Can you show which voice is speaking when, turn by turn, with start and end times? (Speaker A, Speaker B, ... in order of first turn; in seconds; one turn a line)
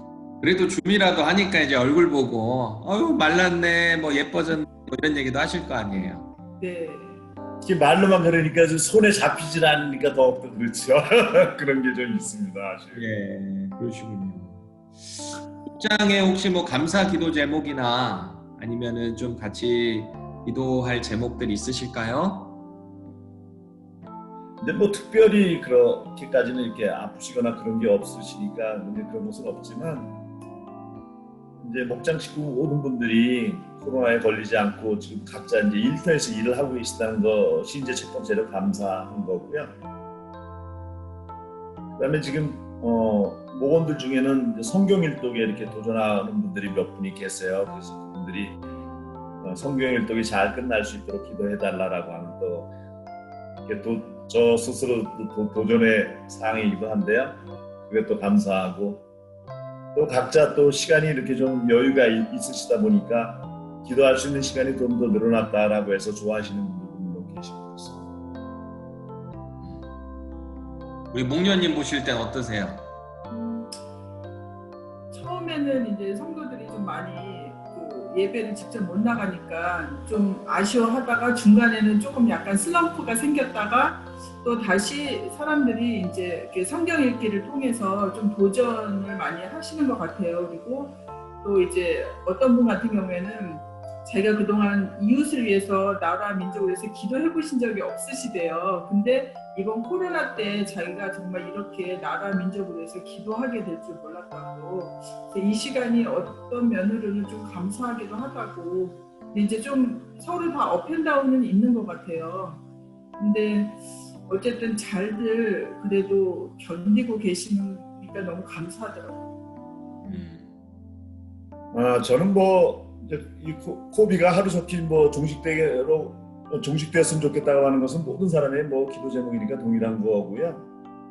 Speaker A: 0.4-6.3
Speaker B: 6.6-7.2
Speaker C: 7.6-13.1
Speaker A: 12.9-22.6
Speaker C: 24.6-30.2
Speaker C: 31.6-39.7
Speaker C: 42.0-48.6
Speaker C: 49.4-52.7
Speaker C: 53.7-59.0
Speaker C: 60.0-68.1
Speaker A: 69.6-69.9
Speaker A: 71.1-72.9
Speaker B: 73.3-73.8
Speaker B: 75.1-112.6
Speaker B: 113.2-119.3
Speaker A: 120.0-120.5
Speaker C: 121.7-130.6